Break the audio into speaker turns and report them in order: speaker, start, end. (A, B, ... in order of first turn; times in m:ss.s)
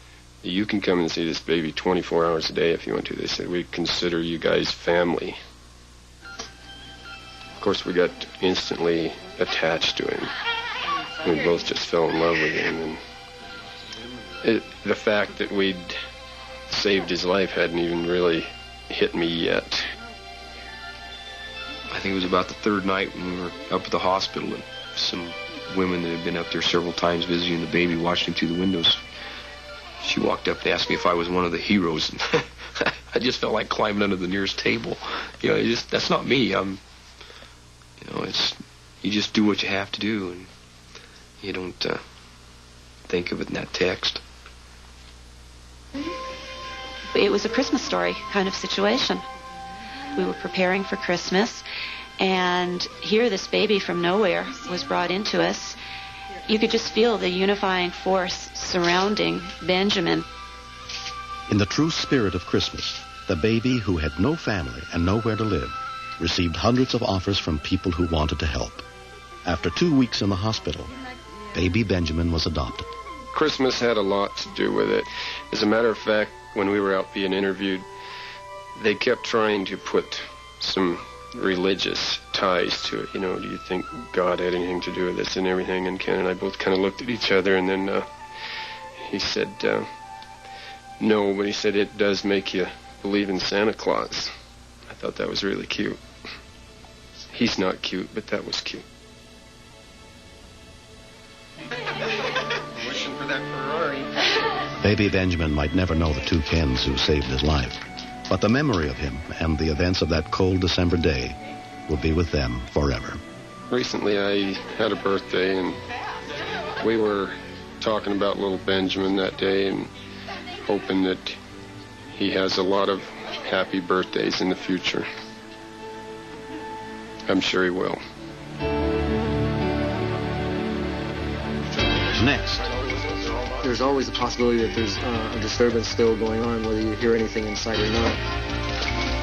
0:00.4-0:05.4 A
0:07.6-0:10.3 A
0:11.2-0:13.0 A
0:14.4-0:16.0 A
0:16.7-0:19.9 A
0:21.9-0:29.0 B
0:30.0-0:32.4 B
0:33.1-0:36.8 B
0:38.0-0:40.5 B
0:41.4-0:42.0 B
0:43.1-0:44.2 B
0:47.1-0:49.2 C
0:50.2-0:51.6 C
0:52.2-0:55.8 C
0:56.5-1:00.2 C
1:01.5-1:08.8 D
1:09.4-1:10.9 D
1:11.5-1:12.9 D
1:13.3-1:17.9 A
1:18.8-1:28.0 A
1:29.0-1:29.9 A
1:31.0-1:34.3 A
1:34.9-1:36.0 A
1:37.3-1:38.8 A
1:44.8-1:53.2 D
1:53.7-1:55.8 A
1:56.8-1:59.9 A
2:00.7-2:01.4 A
2:02.2-2:05.1 A
2:07.3-2:08.0 A
2:12.2-2:12.6 D
2:13.6-2:18.2 E